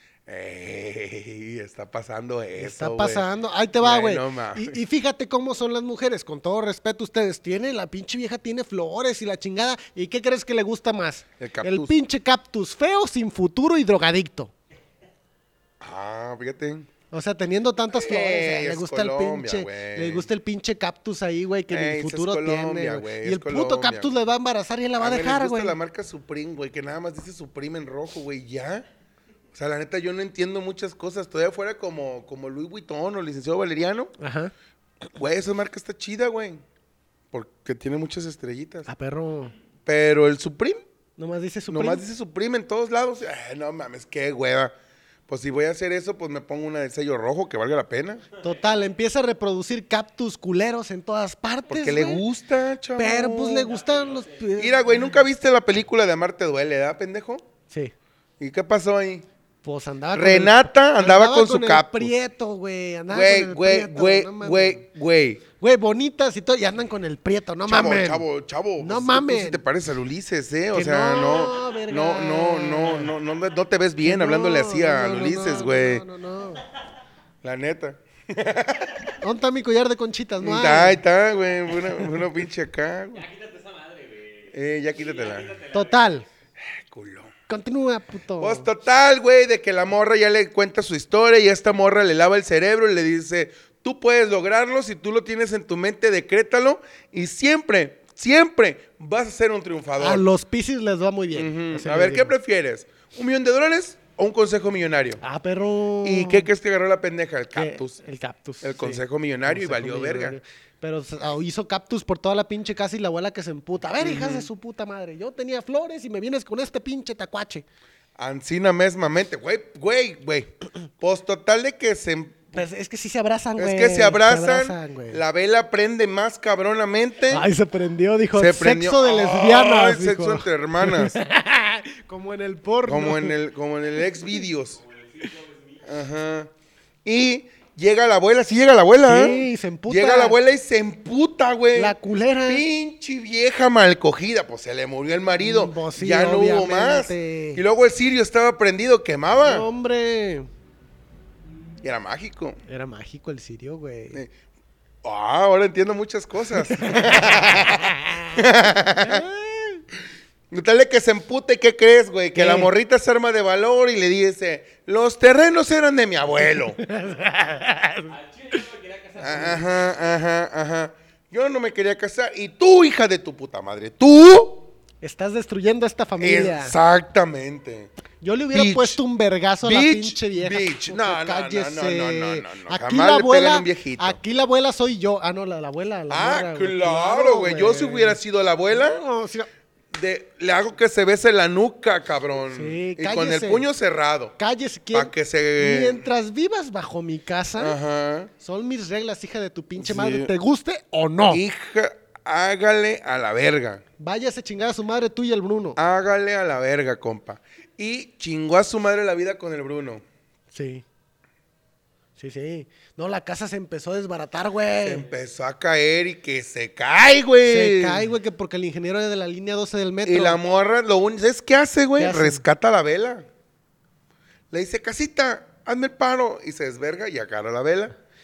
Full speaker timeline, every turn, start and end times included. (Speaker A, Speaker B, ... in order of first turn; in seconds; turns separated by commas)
Speaker A: 0.3-3.3, Speaker B: 2.6-14.5, Speaker A: 3.8-4.8, Speaker A: 11.4-11.9, Speaker A: 15.8-16.9, Speaker B: 17.1-25.8, Speaker A: 17.9-20.3, Speaker A: 21.7-24.1, Speaker A: 25.0-28.9, Speaker A: 29.5-34.1, Speaker B: 34.2-34.5, Speaker A: 35.2-36.6, Speaker A: 37.3-38.9, Speaker B: 38.9-39.5, Speaker A: 39.9-40.8, Speaker B: 41.2-42.0, Speaker A: 41.7-44.7, Speaker A: 45.3-48.2, Speaker C: 48.3-48.8, Speaker B: 48.4-52.2, Speaker A: 51.7-53.7, Speaker B: 53.0-54.9, Speaker C: 53.7-54.8, Speaker A: 54.6-57.4, Speaker A: 58.4-59.3, Speaker B: 59.6-64.8, Speaker A: 60.1-62.1, Speaker A: 63.1-65.4, Speaker B: 65.6-68.2, Speaker A: 67.7-76.0, Speaker B: 68.8-69.6, Speaker B: 70.7-73.1, Speaker B: 74.0-76.7, Speaker A: 77.4-79.2, Speaker B: 79.2-81.0, Speaker A: 80.4-83.2, Speaker C: 83.1-86.2, Speaker A: 84.5-85.6, Speaker B: 85.7-86.3, Speaker A: 86.6-87.3, Speaker B: 87.5-88.7, Speaker A: 88.4-100.3, Speaker B: 100.0-102.3, Speaker A: 101.3-105.2, Speaker B: 105.2-106.5, Speaker A: 106.0-108.0, Speaker B: 107.5-117.7, Speaker A: 108.6-110.4, Speaker A: 114.0-114.5, Speaker A: 118.2-122.6, Speaker B: 122.5-125.2, Speaker A: 123.6-127.5, Speaker B: 127.3-133.3, Speaker A: 128.3-131.2, Speaker A: 132.8-134.8, Speaker C: 134.7-136.0, Speaker A: 135.8-136.5, Speaker A: 137.1-149.7, Speaker B: 139.0-140.4, Speaker B: 141.8-142.6, Speaker B: 145.4-147.6, Speaker B: 149.4-150.5, Speaker A: 151.8-152.6, Speaker B: 152.7-154.2, Speaker A: 155.0-159.3, Speaker B: 156.5-158.4, Speaker B: 159.0-159.8, Speaker A: 160.5-166.8, Speaker B: 162.3-162.7, Speaker B: 166.7-168.6, Speaker C: 168.1-170.2, Speaker A: 169.2-174.7, Speaker B: 175.0-176.8, Speaker A: 176.2-177.9, Speaker B: 178.2-188.2, Speaker A: 178.5-179.0, Speaker A: 179.6-184.2, Speaker A: 186.1-189.0, Speaker B: 188.7-189.5, Speaker A: 189.9-194.4, Speaker B: 192.5-193.7, Speaker B: 194.4-197.8, Speaker A: 194.9-196.0, Speaker A: 197.6-198.3, Speaker B: 198.4-201.4, Speaker A: 199.8-200.3, Speaker A: 201.3-203.8, Speaker B: 204.0-205.8, Speaker A: 205.8-210.0, Speaker B: 210.5-210.8, Speaker B: 212.2-215.1, Speaker A: 214.8-218.1, Speaker B: 217.5-220.4, Speaker A: 220.0-223.3, Speaker B: 222.0-222.4, Speaker A: 224.5-227.9